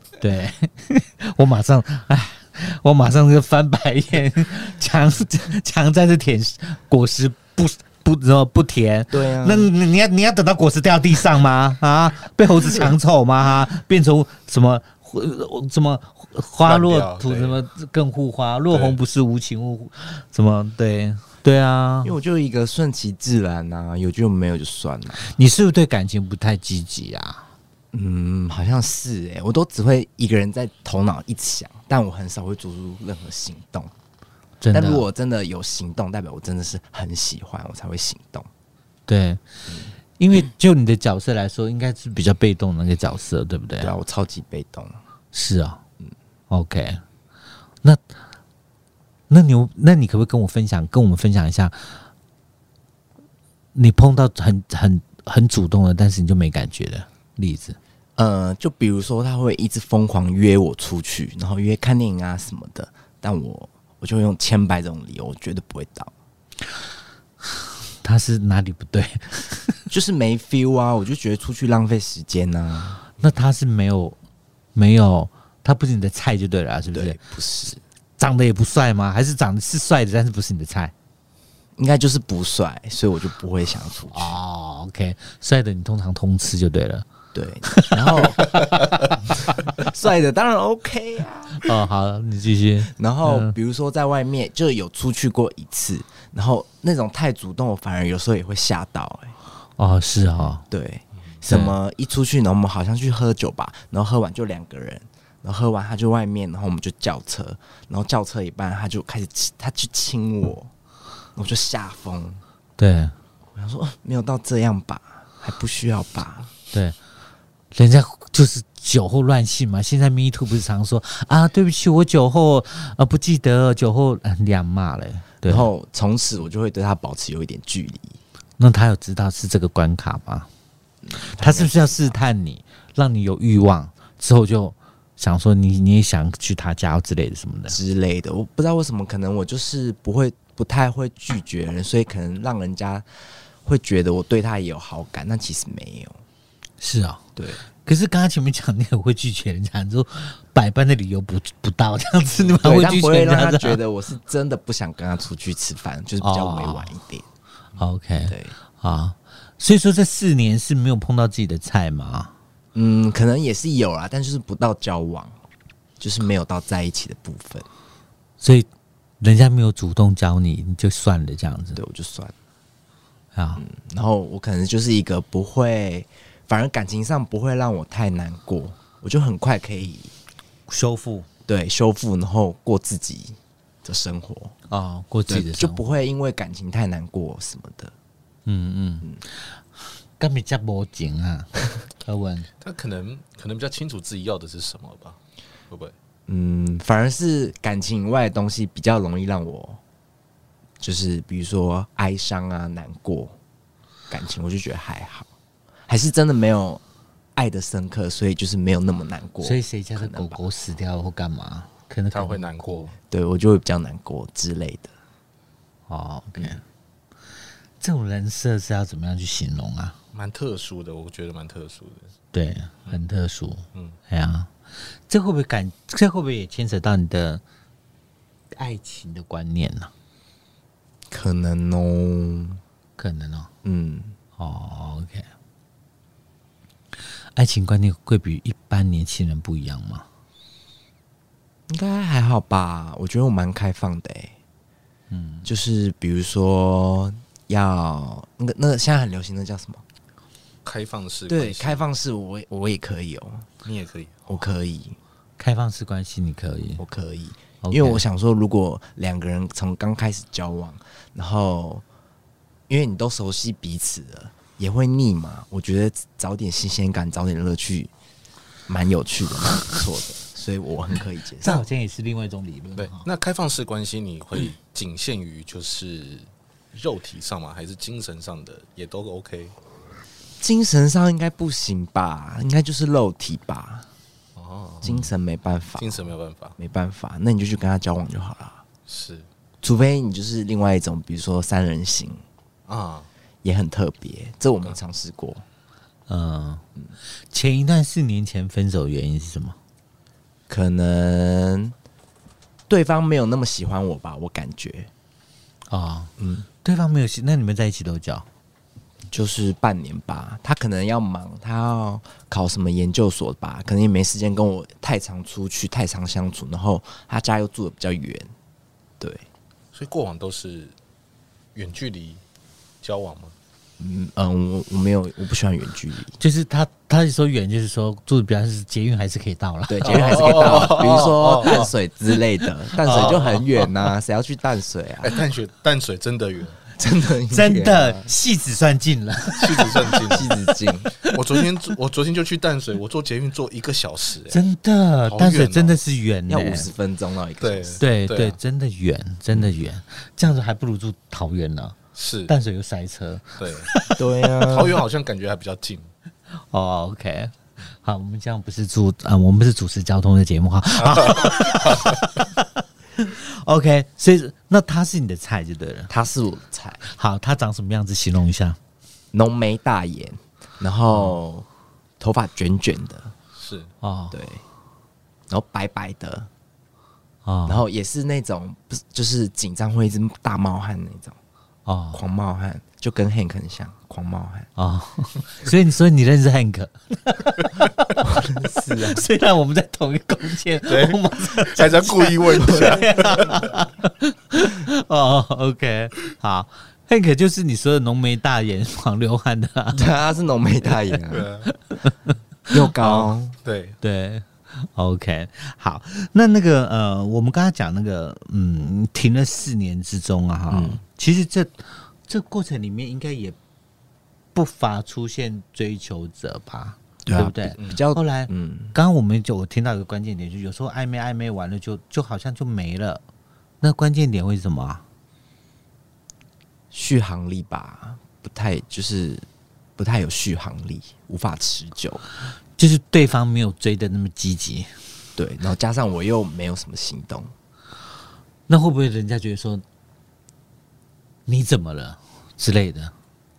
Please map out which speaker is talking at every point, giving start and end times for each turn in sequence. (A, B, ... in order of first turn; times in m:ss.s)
0:00.2-0:22.2 A
0:09.1-0:09.7 B
0:16.6-0:17.6 C
0:18.7-0:19.0 C
0:22.0-0:25.3 B
0:25.2-0:27.4 A
0:27.9-0:33.9 B
0:34.6-0:35.0 A
0:34.7-0:38.5 B
0:39.1-0:39.4 A
0:40.2-0:43.9 A
0:43.8-0:45.0 B
0:45.3-0:45.8 A
0:46.5-0:47.0 A
0:49.3-0:52.0 A
0:53.8-0:57.8 A
0:58.2-1:06.1 B
1:08.0-1:09.8 A
1:09.9-1:13.0 B
1:13.2-1:14.2 A
1:14.8-1:17.2 A
1:16.9-1:17.8 B
1:18.2-1:20.9 A
1:21.8-1:24.4 B
1:24.1-1:27.1 A
1:27.3-1:28.8 B
1:27.7-1:28.5 A
1:29.5-1:31.7 B
1:31.5-1:33.5 A
1:32.9-1:39.4 B
1:39.8-1:40.6 A
1:40.7-1:50.7 B
1:41.5-1:41.7 A
1:51.4-1:52.4 B
1:52.8-1:53.1 A
1:53.6-1:56.5 B
1:57.8-2:05.7 A
2:05.4-2:08.2 B
2:08.6-2:10.5 A
2:11.0-2:12.2 B
2:11.4-2:17.8 A
2:17.7-2:23.0 B
2:23.6-2:26.2 B
2:26.8-2:27.2 A
2:27.4-2:27.6 B
2:27.8-2:33.8 A
2:32.6-2:37.3 B
2:36.2-2:36.9 A
2:37.8-2:42.3 A
2:38.3-2:38.6 B
2:42.8-2:45.4 B
2:46.0-2:47.7 B
2:48.4-2:48.7 A
2:49.2-2:51.8 A
2:51.8-2:52.3 B
2:53.4-2:53.6 A
2:53.6-3:00.1 B
3:00.7-3:01.3 A
3:01.5-3:04.5 B
3:04.7-3:05.8 A
3:05.3-3:07.9 B
3:08.5-3:09.6 A
3:10.2-3:11.5 A
3:12.0-3:12.5 A
3:12.6-3:15.2 C
3:16.3-3:19.8 B
3:20.8-3:23.4 B
3:24.1-3:25.3 B
3:25.9-3:26.8 B
3:27.4-3:30.4 B
3:29.4-3:32.9 A
3:32.1-3:33.0 C
3:33.1-3:34.9 B
3:35.9-3:36.6 A
3:37.8-3:40.0 A
3:40.1-3:42.1 C
3:42.3-3:44.5 A
3:45.1-3:47.4 A
3:48.5-3:49.9 A
3:51.1-3:52.6 B
3:53.0-3:53.5 A
3:53.6-3:54.2 B
3:54.4-3:55.3 A
3:57.4-4:00.0 A
4:01.7-4:04.4 B
4:05.1-4:05.5 A
4:05.4-4:09.8 B
4:10.6-4:11.8 C
4:11.3-4:13.5 B
4:13.6-4:14.3 C
4:14.3-4:15.0 B
4:15.4-4:16.8 A
4:16.8-4:21.8 B
4:17.6-4:18.0 A
4:22.7-4:27.9 B
4:28.7-4:31.6 B
4:31.4-4:33.1 A
4:32.8-4:39.6 C
4:40.4-4:43.9 B
4:44.4-4:45.0 C
4:44.8-4:48.6 B
4:45.8-4:46.6 C
4:48.9-4:49.3 C
4:49.6-4:52.2 B
4:52.7-4:53.1 C
4:53.4-4:55.4 B
4:56.1-4:56.6 A
4:57.3-4:59.6 A
5:00.5-5:01.8 B
5:02.7-5:04.9 B
5:05.7-5:06.1 A
5:06.2-5:06.5 B
5:06.6-5:08.2 A
5:09.1-5:18.3 B
5:19.0-5:19.3 B
5:19.7-5:20.8 C
5:21.6-5:22.2 C
5:22.8-5:23.3 C
5:23.8-5:26.2 B
5:26.2-5:30.6 A
5:29.7-5:35.2 B
5:29.9-5:31.7 C
5:32.8-5:33.4 A
5:35.0-5:36.6 C
5:36.7-5:38.1 B
5:37.3-5:40.2 A
5:39.4-5:40.3 C
5:40.0-5:40.9 B
5:40.9-5:41.2 A
5:41.0-5:44.4 C
5:44.3-5:46.7 A
5:45.0-5:45.8 C
5:46.3-5:47.8 B
5:47.4-5:48.4 C
5:47.8-5:54.0 A
5:52.0-5:52.3 C
5:53.4-5:53.7 C
5:54.0-5:54.8 B
5:54.4-5:55.9 C
5:56.5-6:05.9 A
6:00.8-6:02.0 C
6:05.9-6:06.8 B
6:06.8-6:08.6 A
6:09.1-6:11.5 B
6:12.0-6:13.1 B
6:13.4-6:13.7 C
6:13.8-6:14.2 A
6:14.1-6:14.4 B
6:15.3-6:16.3 B
6:17.2-6:17.6 A
6:17.5-6:21.2 B
6:21.7-6:22.0 A
6:21.9-6:24.5 B
6:24.6-6:39.8 A
6:28.0-6:29.0 B
6:30.7-6:33.4 C
6:32.3-6:33.4 B
6:39.8-6:41.3 B
6:41.1-6:41.5 C
6:41.5-6:41.9 A
6:42.5-6:43.4 B
6:42.8-6:43.8 C
6:43.8-6:53.4 A
6:50.5-6:50.8 B
6:54.4-7:03.0 A
6:57.0-6:58.8 B
7:03.6-7:04.8 A
7:06.7-7:09.3 B
7:09.8-7:12.0 B
7:12.6-7:14.7 A
7:15.2-7:17.3 B
7:18.5-7:19.6 A
7:21.3-7:22.9 A